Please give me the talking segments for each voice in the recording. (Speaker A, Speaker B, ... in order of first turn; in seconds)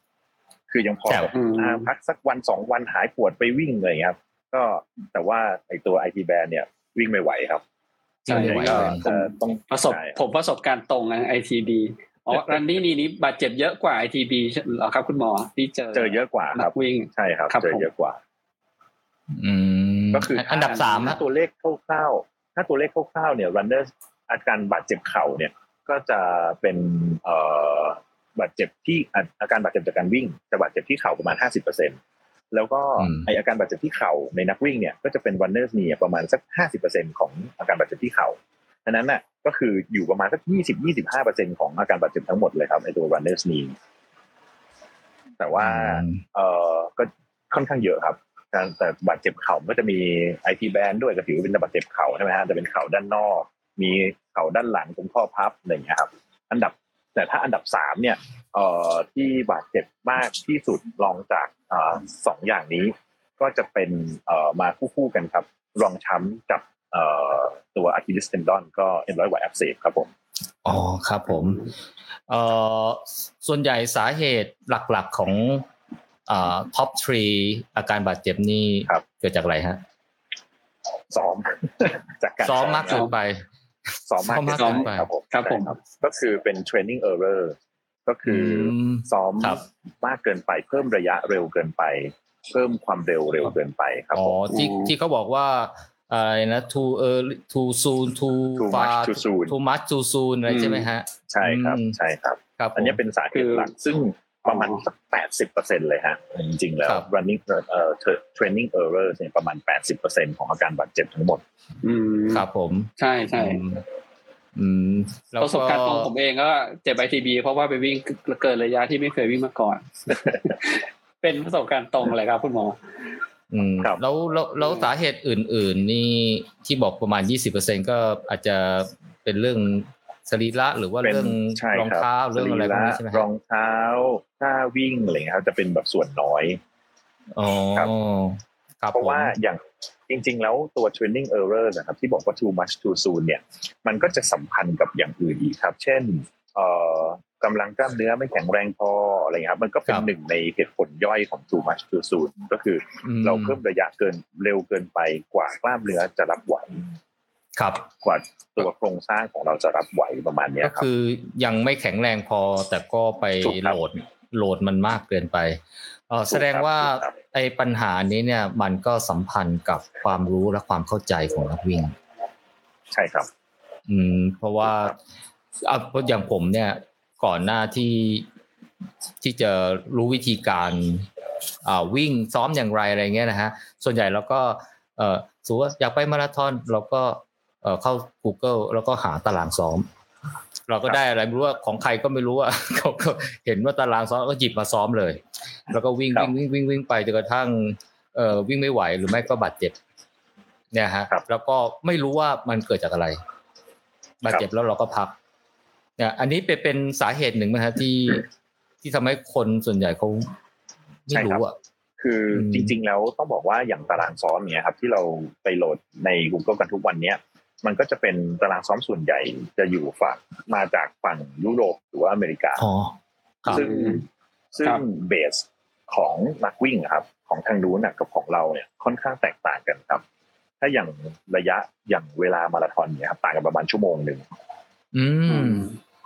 Speaker A: 0.7-7.6, 8.2-10.2, 15.9-18.2, 20.1-32.0, 32.5-43.8, 45.4-70.1, 81.1-83.1, 84.1-94.4, 98.6-99.5, 101.3-111.4, 131.0-136.6, 138.9-156.9, 158.0-160.8, 163.4-163.8, 166.3-167.2, 172.9-173.3, 174.7-174.9, 211.1-211.4, 212.0-222.7, 223.5-230.0, 230.6-234.2
Speaker B: 1.3-1.9, 8.3-17.9, 20.5-21.1, 84.5-85.7, 94.5-94.9, 100.5-100.9, 103.3-103.7, 104.5-104.8, 111.8-112.5, 113.0-113.6, 115.4-122.8, 223.5-224.0, 235.3-235.8
Speaker C: 8.3-9.0, 19.4-21.2, 33.0-33.3, 45.6-46.2, 70.6-71.7, 72.3-75.7, 76.3-79.8, 82.4-83.5, 84.2-85.1, 88.2-89.6, 94.1-102.0, 102.6-103.0, 112.3-113.8, 114.5-116.1, 123.5-133.3, 137.4-139.3, 153.0-153.6, 157.6-157.9, 160.6-171.9, 173.9-175.0, 175.6-178.2, 179.2-181.1, 181.7-189.9, 190.7-199.8, 200.7-203.2, 204.2-205.2, 206.0-208.2, 208.8-210.3, 211.1-211.6, 212.3-212.7, 222.6-223.6, 234.9-235.7